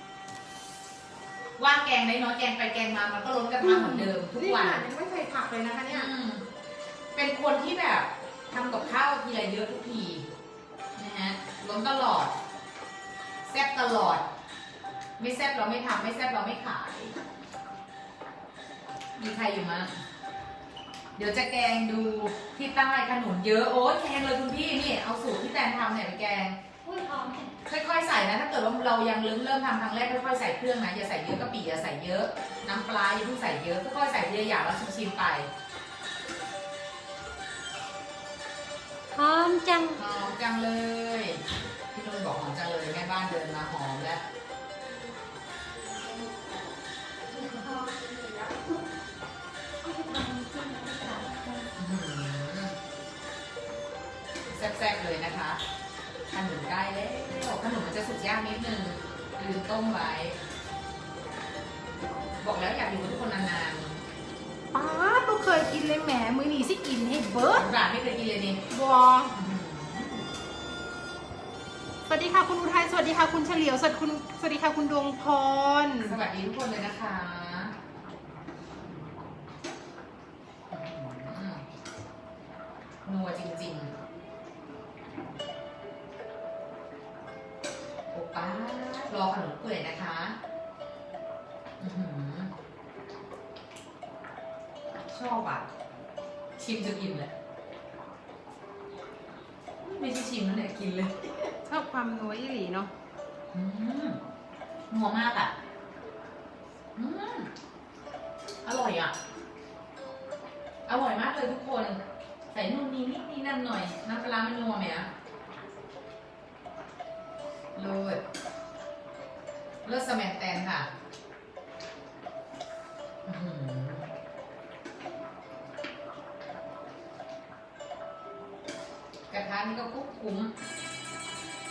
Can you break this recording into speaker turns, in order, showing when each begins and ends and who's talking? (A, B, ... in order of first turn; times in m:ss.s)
0:01.6-0:04.9 A
0:03.6-0:06.1 B
0:05.9-0:06.5 A
0:07.2-0:10.3 A
0:11.0-0:12.4 A
0:13.4-0:14.2 A
0:15.2-0:17.2 A
0:19.2-0:20.0 A
0:21.2-0:26.6 A
0:26.8-0:27.5 C
0:27.7-0:35.5 A
0:39.1-0:40.0 C
0:40.0-0:44.2 A
0:44.9-0:45.1 C
0:45.7-0:46.6 C
0:47.2-0:48.8 C
0:49.8-0:51.7 C
0:51.8-0:52.8 A
0:54.5-0:55.6 A
0:56.3-1:00.4 A
1:02.4-1:04.0 A
1:04.7-1:07.7 B
1:07.5-1:08.6 A
1:08.7-1:09.3 B
1:09.3-1:10.3 A
1:12.1-1:16.2 B
1:16.0-1:17.7 A
1:20.7-1:21.6 A
1:23.1-1:23.9 A
1:28.1-1:30.4 A
1:31.8-1:32.5 A
1:35.1-1:35.7 A
1:36.6-1:37.3 A
1:39.8-1:41.5 A
1:41.6-1:42.9 B
1:43.5-1:44.2 A
1:44.9-1:45.5 A
1:47.0-1:47.5 A
1:48.6-1:49.1 A
1:50.9-1:52.0 A
1:52.5-1:55.1 A
1:57.8-1:58.2 A
1:59.8-2:00.9 A
2:03.3-2:04.1 A
2:09.3-2:10.5 A